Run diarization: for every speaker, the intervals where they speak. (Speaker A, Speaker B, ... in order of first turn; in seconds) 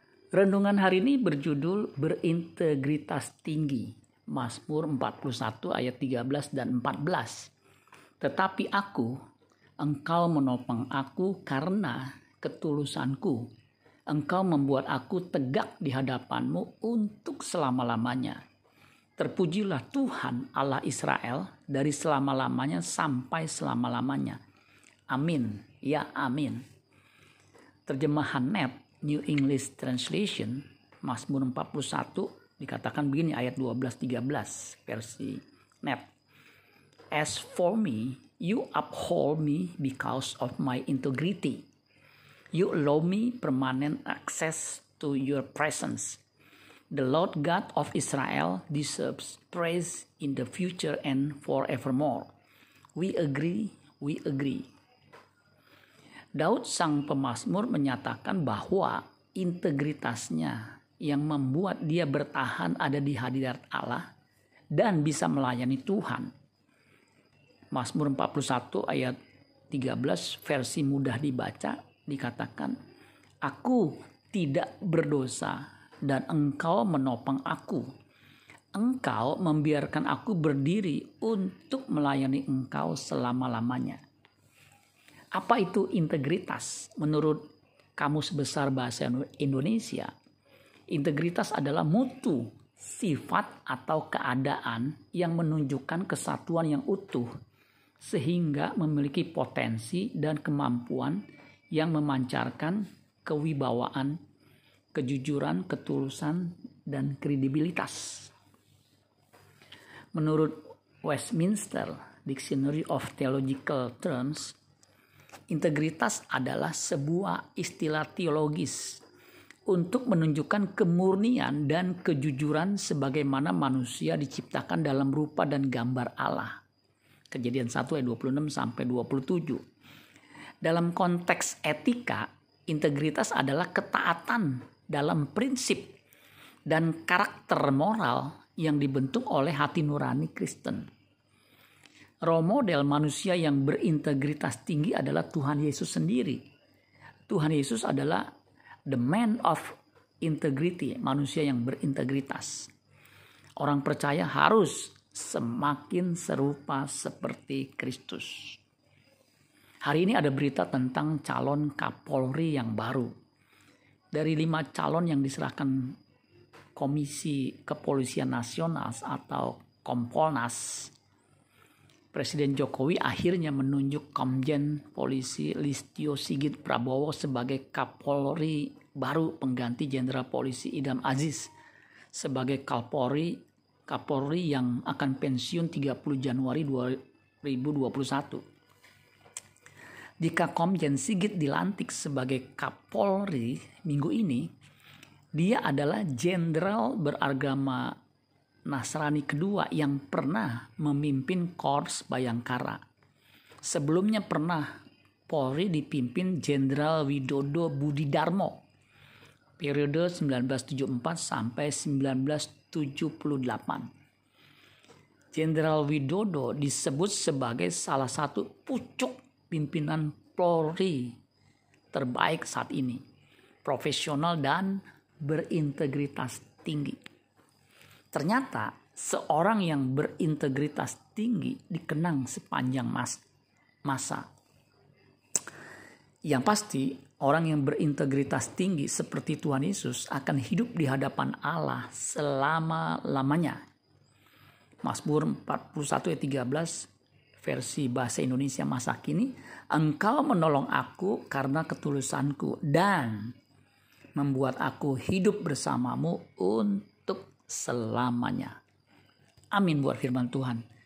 Speaker A: 0.3-7.5, 8.2-9.2, 9.8-13.5, 14.1-18.4, 19.2-24.4, 25.1-26.6, 27.9-36.1, 37.1-41.6, 42.5-46.2, 46.9-52.3, 53.0-54.7, 56.4-64.1, 64.7-66.3, 67.7-69.2, 69.7-72.8, 73.4-77.9, 78.7-84.0, 85.3-87.4, 88.0-90.1, 90.9-97.3, 98.0-104.2, 104.9-108.3, 110.1-114.6, 115.5-119.0, 119.7-126.6, 127.3-129.6, 130.6-136.0, 136.7-140.9, 142.2-146.4, 147.3-148.3, 148.9-152.7, 153.6-158.6, 159.8-163.1, 164.1-166.0, 166.8-170.9, 172.1-181.5, 182.1-188.4, 190.2-194.5, 195.3-198.0, 198.7-202.8, 203.6-208.6, 209.6-213.9, 215.3-221.2, 221.9-223.0, 223.6-227.0, 228.1-233.2, 233.8-234.3, 236.3-243.6, 244.8-246.9, 247.4-253.3, 254.2-258.6, 259.5-260.6